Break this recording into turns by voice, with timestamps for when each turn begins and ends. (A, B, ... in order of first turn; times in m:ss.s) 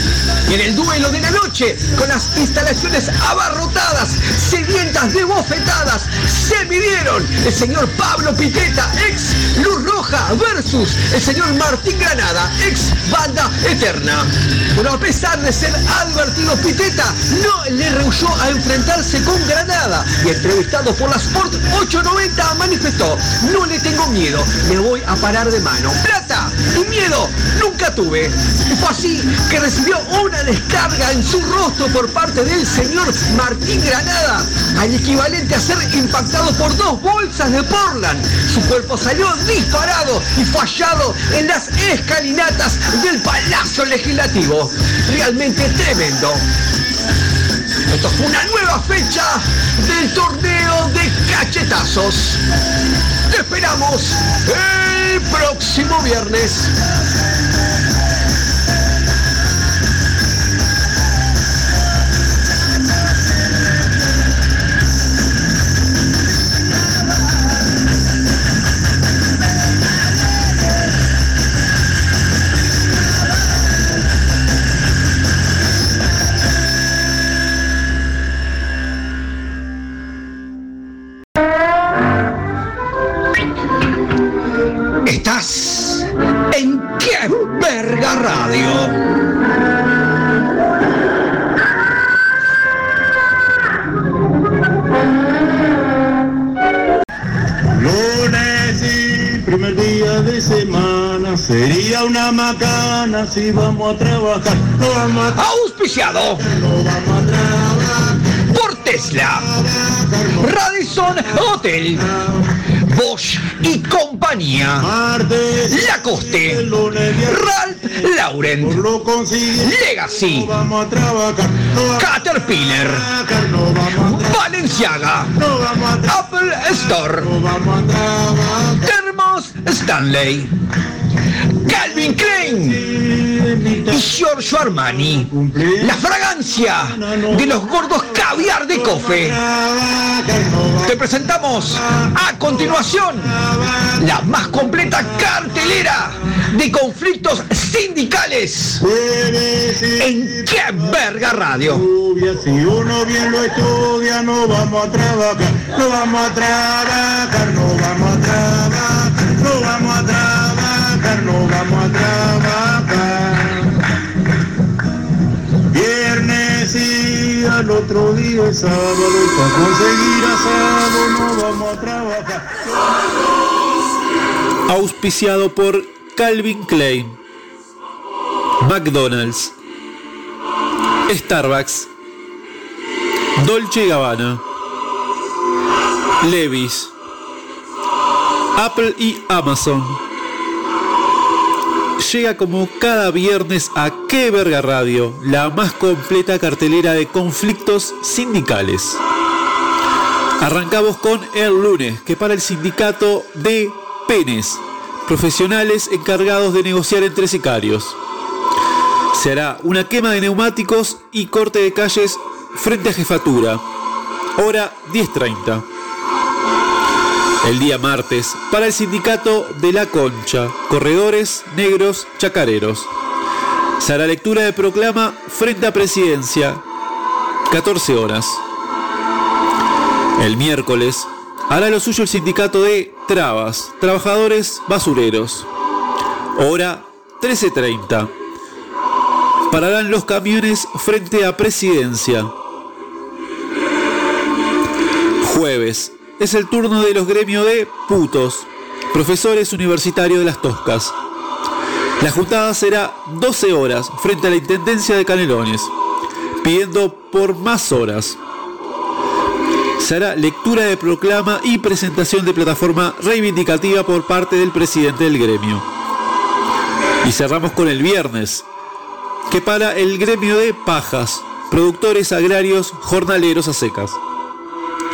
0:00.5-0:46.4 A
0:47.9-0:52.4 A
0:53.3-0:56.7 A
1:25.0-1:29.0 A
1:37.7-1:45.4 B
1:45.3-1:46.4 A
1:46.4-1:48.2 B
1:48.5-1:49.5 A
1:49.6-1:50.5 B
1:50.4-1:52.0 A
1:52.9-1:54.9 A
1:54.8-2:04.5 B
1:55.7-1:56.6 A
1:57.2-1:58.8 A
1:59.6-2:00.5 A
2:02.0-2:03.0 A
2:03.9-2:05.3 A
2:05.4-2:08.9 B
2:06.1-2:07.3 A
2:08.8-2:10.5 A
2:11.6-2:12.8 A
2:12.3-2:14.1 B
2:13.9-2:15.3 A
2:15.3-2:21.0 B
2:15.8-2:19.4 A
2:20.8-2:23.4 A
2:21.8-2:24.0 B
2:24.0-2:28.8 A
2:28.8-2:31.0 B
2:30.0-2:31.8 A
2:31.6-2:43.7 B
2:45.7-2:52.7 B
2:54.7-2:57.2 C
2:58.6-2:59.5 C
3:01.1-3:01.9 C
3:03.4-3:04.4 C
3:06.2-3:06.9 C
3:08.5-3:10.0 C
3:12.0-3:19.0 C
3:20.4-3:28.0 C
3:29.1-3:33.6 C
3:34.4-3:35.6 C
3:37.4-3:42.9 C
3:43.8-3:46.6 C
3:47.5-3:48.4 C
3:50.2-3:55.5 C
3:56.4-3:58.1 C
3:59.5-4:02.3 C
4:05.2-4:10.9 C
4:12.0-4:15.7 C
4:16.4-4:18.2 C
4:19.8-4:25.6 C
4:27.0-4:28.4 C
4:29.3-4:34.0 C